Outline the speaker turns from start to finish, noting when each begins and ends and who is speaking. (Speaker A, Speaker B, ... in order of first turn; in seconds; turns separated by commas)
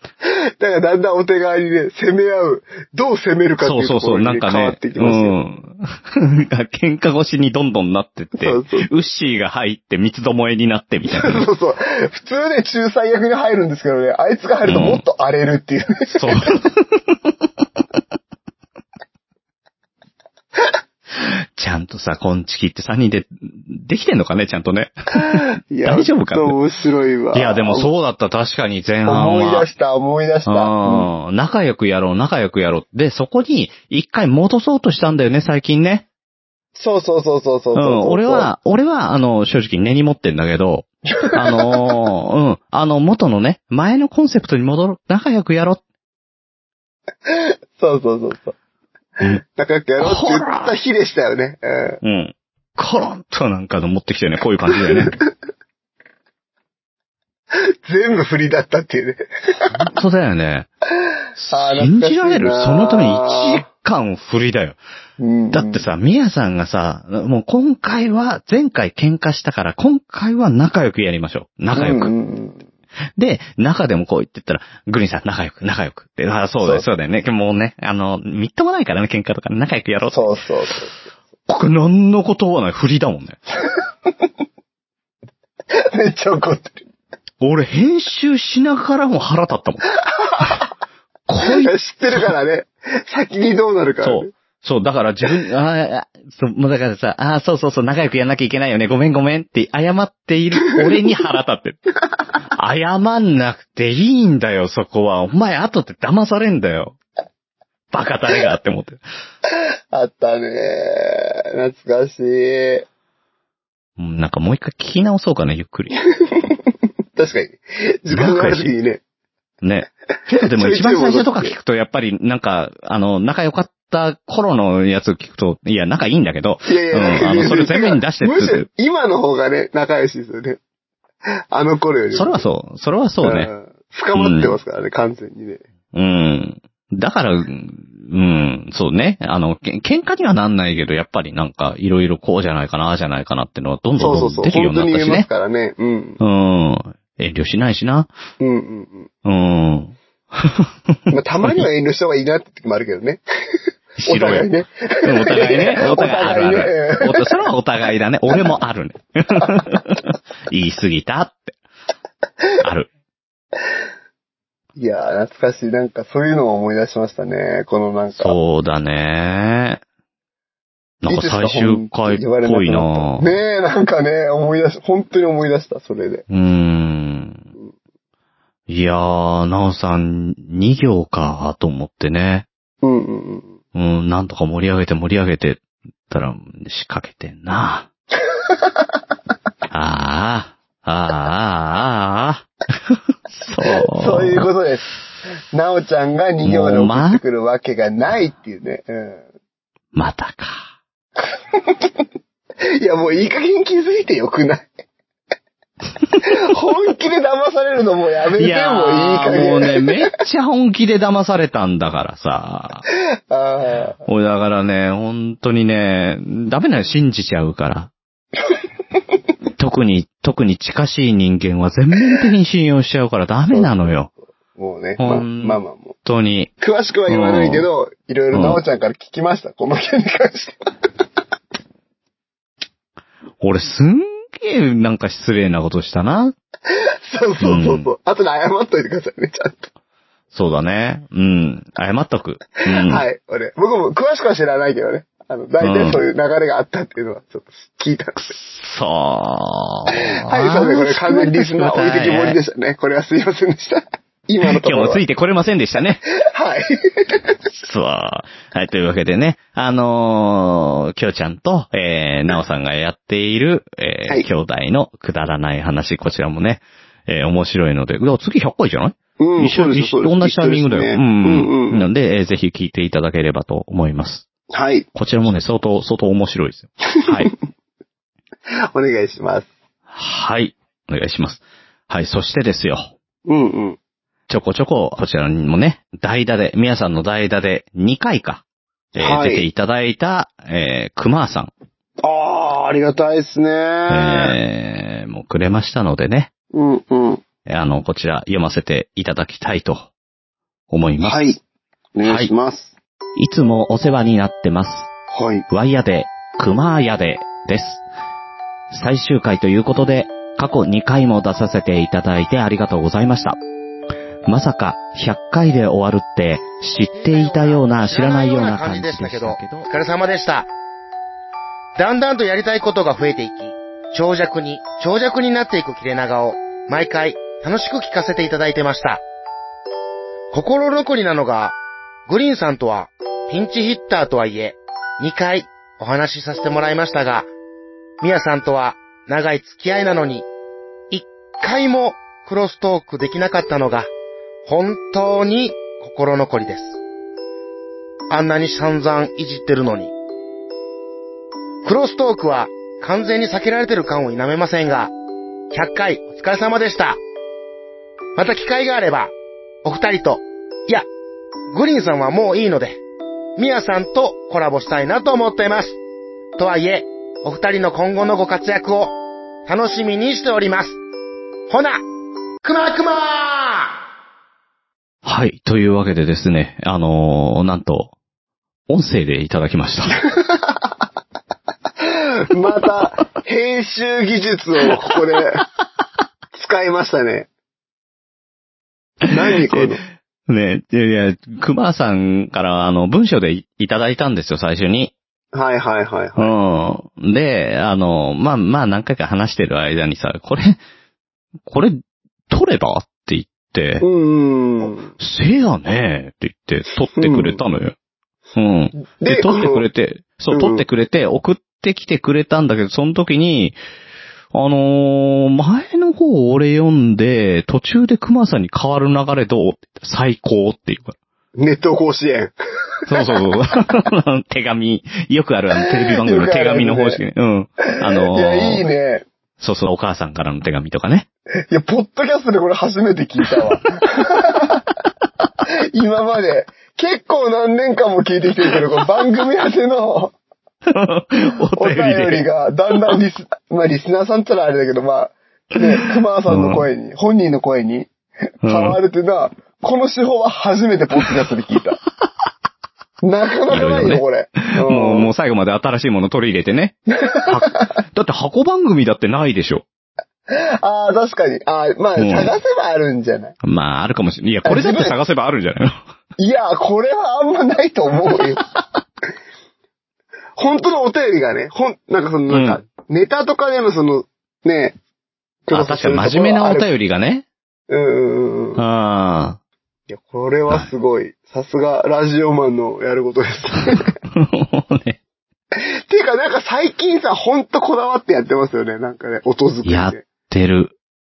Speaker A: 0.6-5.4, Speaker B: 3.6-11.4, Speaker A: 8.4-8.9, Speaker A: 11.1-16.5, Speaker B: 14.7-15.0, Speaker B: 16.1-17.2, Speaker B: 21.2-26.6, Speaker A: 25.3-27.9, Speaker B: 27.3-29.7, Speaker A: 29.1-31.1, Speaker B: 30.4-36.0, Speaker A: 36.7-38.5, Speaker B: 37.7-45.8, Speaker A: 41.3-41.8, Speaker A: 47.3-48.5, Speaker A: 49.2-52.0, Speaker B: 50.0-50.7, Speaker B: 52.0-55.2, Speaker A: 57.8-59.7, Speaker B: 59.7-60.7, Speaker B: 61.4-64.8, Speaker A: 61.5-63.6, Speaker A: 65.2-65.9, Speaker B: 65.5-72.1, Speaker A: 71.7-72.6, Speaker B: 73.2-80.3, Speaker A: 80.1-81.0, Speaker B: 81.5-83.4, Speaker A: 85.8-86.8, Speaker B: 87.4-89.8, Speaker A: 90.2-90.6, Speaker B: 91.3-92.3, Speaker A: 91.4-94.3, Speaker B: 94.0-101.8, Speaker B: 102.5-107.0, Speaker B: 107.9-109.0, Speaker A: 109.9-112.9, Speaker B: 114.0-116.0, Speaker A: 117.2-119.0, Speaker B: 118.1-118.7, Speaker B: 119.6-128.7, Speaker A: 120.4-121.5, Speaker A: 126.7-130.6, Speaker A: 131.5-132.4, Speaker B: 132.1-133.5, Speaker A: 133.2-135.6, Speaker B: 134.1-134.6, Speaker B: 135.9-145.3, Speaker A: 144.0-146.2, Speaker B: 146.2-148.1, Speaker A: 148.4-149.1, Speaker B: 149.2-150.7, Speaker A: 151.1-153.2, Speaker B: 153.9-154.5, Speaker A: 154.1-157.3, Speaker B: 155.1-161.6, Speaker B: 162.6-162.9, Speaker A: 164.8-168.3, Speaker B: 168.1-169.8, Speaker B: 171.0-173.3, Speaker A: 171.1-176.2, Speaker B: 176.3-177.4, Speaker B: 178.7-182.4, Speaker A: 182.8-183.6, Speaker B: 183.7-187.9, Speaker B: 189.7-194.5, Speaker A: 193.7-194.9, Speaker A: 195.5-199.2, Speaker B: 196.4-197.2, Speaker B: 199.9-200.6, Speaker A: 202.8-204.7, Speaker A: 206.2-209.9, Speaker B: 208.3-212.8, Speaker A: 213.3-214.0, Speaker B: 214.1-217.9, Speaker B: 219.6-224.1, Speaker A: 223.5-225.9, Speaker B: 225.0-226.5, Speaker A: 226.6-230.6, Speaker B: 227.1-227.7, Speaker B: 228.3-228.6, Speaker B: 233.4-236.3, Speaker A: 237.1-239.7, Speaker B: 237.4-237.9, Speaker B: 240.3-243.1, Speaker A: 242.6-248.3, Speaker B: 245.6-246.0, Speaker B: 248.2-252.4, Speaker A: 250.1-255.0, Speaker B: 254.4-256.0, Speaker A: 256.2-256.7, Speaker B: 257.6-274.3, Speaker A: 269.2-271.9, Speaker A: 274.5-274.9, Speaker B: 274.9-277.3, Speaker A: 278.7-279.5, Speaker B: 279.9-282.9, Speaker A: 283.3-283.8, Speaker B: 284.3-288.4, Speaker A: 288.9-289.5, Speaker B: 288.9-291.5, Speaker A: 292.0-294.4, Speaker B: 293.9-296.3, Speaker A: 296.5-297.2, Speaker B: 297.4-299.9, Speaker B: 300.7-301.3, Speaker A: 301.0-301.4, Speaker A: 301.9-302.7, Speaker B: 302.0-302.3, Speaker B: 303.1-304.9, Speaker A: 305.1-305.4, Speaker B: 305.5-307.8, Speaker B: 308.7-313.4, Speaker B: 314.3-319.7, Speaker C: 316.9-320.5, Speaker C: 321.8-329.0, Speaker C: 330.3-331.6, Speaker C: 332.1-337.3, Speaker C: 338.0-340.3, Speaker C: 340.9-343.9, Speaker C: 344.4-346.8, Speaker C: 348.1-349.9, Speaker C: 351.6-354.9, Speaker C: 355.5-357.0, Speaker C: 358.1-359.1, Speaker C: 359.6-360.9, Speaker C: 361.5-362.8, Speaker C: 363.4-365.8, Speaker C: 366.4-368.9, Speaker C: 369.5-370.8, Speaker C: 371.5-371.8, Speaker C: 372.4-373.7, Speaker B: 375.1-377.9, Speaker B: 378.7-380.0, Speaker A: 381.8-385.4, Speaker A: 386.3-387.3, Speaker A: 389.1-389.8, Speaker B: 390.3-394.9, Speaker A: 395.3-396.3, Speaker B: 396.2-400.6, Speaker B: 401.4-403.8, Speaker A: 403.8-404.9, Speaker B: 405.0-407.7, Speaker A: 406.9-407.4, Speaker B: 408.4-413.6, Speaker A: 408.8-409.6, Speaker A: 410.3-410.6, Speaker B: 414.3-420.9, Speaker A: 421.4-422.3, Speaker B: 422.9-428.6, Speaker A: 425.7-427.0, Speaker A: 427.8-429.1, Speaker B: 429.4-431.1, Speaker A: 431.5-434.6, Speaker A: 435.7-440.1, Speaker B: 440.7-442.3, Speaker A: 441.6-447.9, Speaker B: 446.3-446.6, Speaker B: 448.4-448.8, Speaker A: 448.4-451.8, Speaker A: 453.0-455.1, Speaker B: 453.5-454.0, Speaker B: 454.6-459.6, Speaker A: 457.1-457.3, Speaker A: 460.3-463.4, Speaker B: 462.0-462.3, Speaker B: 463.4-465.8, Speaker A: 464.4-464.9, Speaker A: 466.2-468.4, Speaker A: 470.4-474.8, Speaker B: 472.3-472.6, Speaker A: 475.5-476.7, Speaker B: 475.5-477.2, Speaker A: 477.7-478.6, Speaker B: 478.6-479.4, Speaker A: 479.9-483.9, Speaker B: 484.1-485.0, Speaker A: 485.6-490.1, Speaker B: 489.6-490.7